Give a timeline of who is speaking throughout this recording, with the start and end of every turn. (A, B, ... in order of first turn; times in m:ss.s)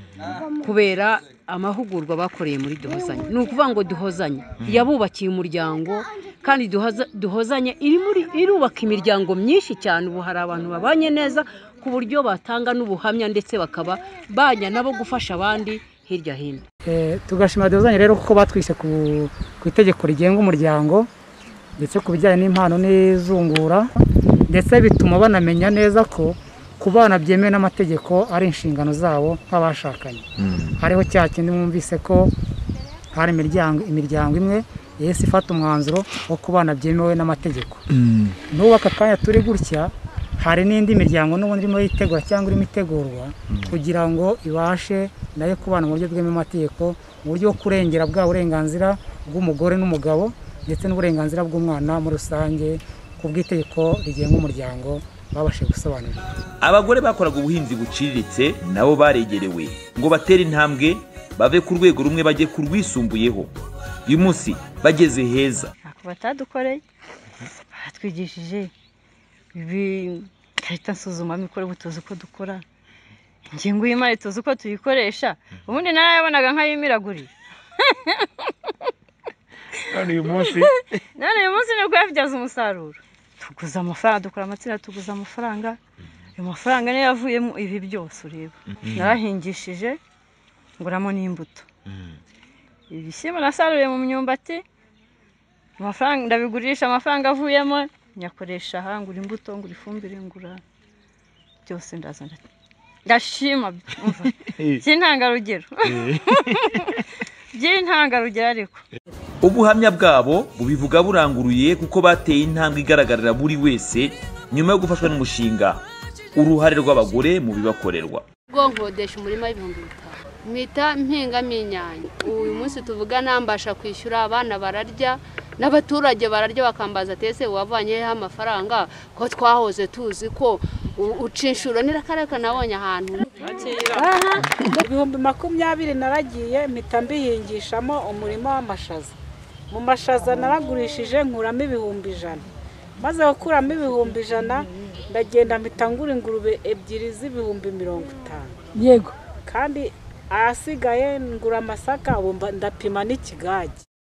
0:00.6-0:16.6 A
0:16.8-0:21.1 B
0:21.8-0:23.9 B
0:24.5-0:30.2 B
0:30.8-0:32.3 B
0:33.1-0:37.8 B
0:38.5-0:56.3 B
0:56.6-1:03.5 C
1:04.1-1:05.7 C
1:05.8-1:06.8 D
1:07.7-1:08.7 D
1:09.5-1:12.6 D
1:13.5-1:17.3 D
1:19.9-1:25.8 D
1:26.4-1:30.0 D
1:30.8-1:31.7 D
1:32.9-1:34.6 D
1:35.8-1:40.6 D
1:41.6-1:42.4 D
1:43.0-1:47.0 D
1:47.5-1:48.8 D
1:49.4-1:55.8 C
1:56.4-1:58.2 C
1:58.5-2:13.3 E
2:13.4-2:19.1 F
2:19.7-2:22.5 F
2:23.0-2:28.5 F
2:29.5-2:33.8 F